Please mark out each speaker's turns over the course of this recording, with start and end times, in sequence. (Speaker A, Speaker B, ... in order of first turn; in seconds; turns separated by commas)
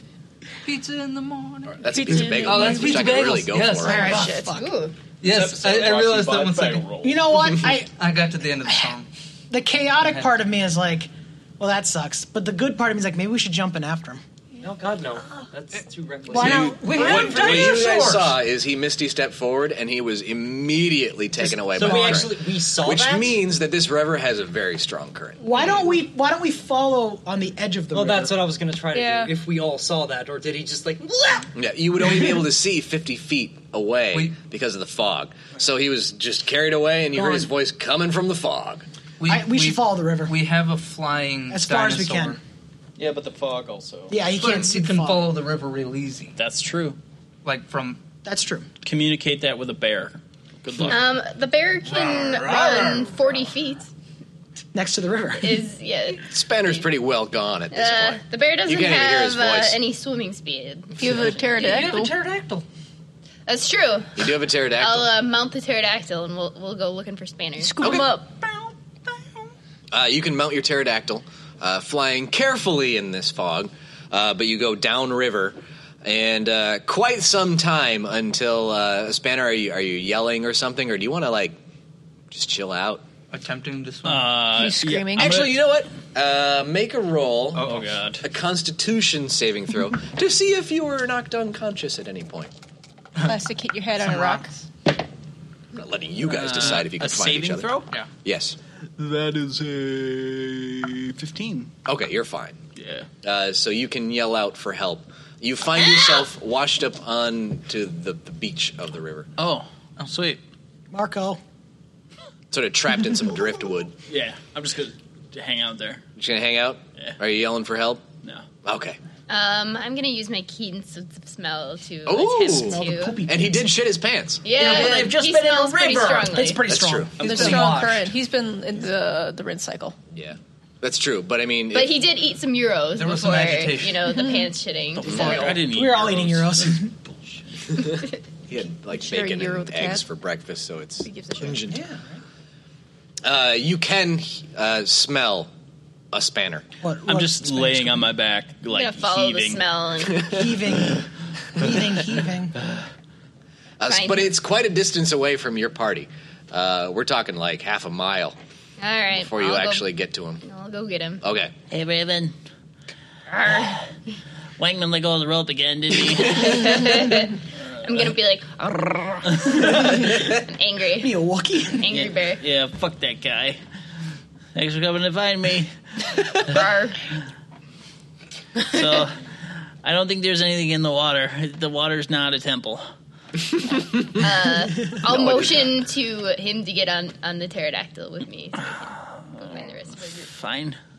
Speaker A: 0.6-4.4, Speaker B: 1.8-4.1, Speaker C: 1.9-3.1, Speaker D: 3.8-4.8, Speaker C: 3.9-4.6, Speaker E: 4.5-4.9, Speaker A: 5.2-6.9, Speaker F: 5.2-7.3, Speaker D: 7.0-7.9, Speaker A: 8.0-9.1, Speaker D: 8.6-8.9, Speaker D: 9.5-14.2, Speaker G: 14.6-18.0, Speaker D: 16.3-18.1, Speaker B: 16.3-25.4, Speaker A: 16.9-18.2, Speaker D: 21.4-22.3, Speaker G: 21.8-23.4, Speaker D: 25.4-28.4, Speaker G: 27.9-31.5, Speaker C: 28.9-29.3, Speaker B: 31.5-38.9, Speaker D: 37.1-37.5, Speaker A: 39.2-42.4, Speaker D: 39.2-40.4, Speaker D: 41.5-42.4, Speaker F: 43.0-44.2, Speaker D: 44.1-45.3, Speaker A: 44.4-46.4, Speaker F: 46.4-47.0, Speaker A: 47.4-48.0, Speaker D: 48.2-48.7, Speaker F: 48.8-51.1, Speaker E: 50.8-53.9, Speaker A: 51.9-53.1, Speaker D: 54.7-55.6, Speaker E: 55.4-56.9, Speaker B: 56.3-59.8, Speaker E: 57.7-61.0, Speaker C: 61.0-62.2, Speaker A: 61.5-62.6, Speaker E: 63.5-64.3, Speaker B: 64.2-65.1, Speaker E: 64.8-68.0, Speaker C: 67.7-68.1, Speaker B: 67.8-68.1, Speaker B: 69.9-81.6, Speaker B: 82.3-83.0, Speaker A: 83.3-84.4, Speaker F: 84.0-85.7, Speaker C: 84.5-85.5, Speaker B: 85.1-92.5, Speaker A: 87.5-87.8, Speaker F: 87.6-88.2, Speaker C: 93.2-94.5, Speaker A: 94.1-94.4, Speaker B: 95.7-97.7, Speaker F: 96.3-97.9, Speaker B: 98.2-98.5, Speaker F: 99.0-101.7, Speaker B: 101.9-102.6, Speaker F: 102.8-103.1, Speaker B: 103.2-109.3, Speaker F: 109.4-110.4, Speaker D: 110.9-111.4, Speaker B: 112.5-113.9, Speaker F: 114.1-116.0, Speaker B: 116.2-118.1, Speaker B: 118.6-119.0, Speaker E: 119.3-123.2, Speaker B: 122.0-124.4, Speaker D: 122.6-123.7, Speaker E: 124.4-126.6, Speaker D: 124.6-127.1, Speaker F: 124.8-125.2, Speaker H: 125.5-126.1, Speaker B: 126.7-127.7, Speaker A: 127.2-128.0, Speaker C: 127.2-129.9, Speaker B: 130.1-132.0, Speaker E: 131.7-135.4, Speaker A: 133.0-134.1, Speaker C: 134.1-134.5, Speaker F: 134.9-137.4, Speaker B: 135.0-135.6, Speaker D: 135.5-136.9, Speaker B: 138.5-141.8, Speaker C: 138.9-140.0, Speaker C: 141.0-141.6, Speaker D: 141.7-142.2, Speaker B: 143.2-145.5, Speaker B: 146.1-146.7, Speaker D: 146.8-148.1, Speaker F: 147.1-149.6, Speaker E: 148.7-150.5, Speaker D: 150.3-152.6, Speaker B: 153.8-158.4, Speaker E: 153.9-154.3, Speaker E: 158.8-159.9, Speaker B: 159.1-160.4, Speaker E: 160.4-161.2, Speaker B: 161.2-161.5, Speaker H: 161.7-162.3, Speaker E: 163.3-163.8, Speaker H: 164.6-166.8, Speaker E: 166.3-171.1, Speaker D: 169.6-170.1, Speaker D: 171.0-171.9, Speaker E: 171.8-172.4, Speaker F: 171.9-173.6, Speaker H: 174.5-175.7, Speaker E: 176.4-177.0, Speaker F: 178.7-179.1, Speaker H: 179.8-182.8, Speaker E: 184.2-190.3, Speaker B: 185.0-185.8, Speaker H: 190.4-190.7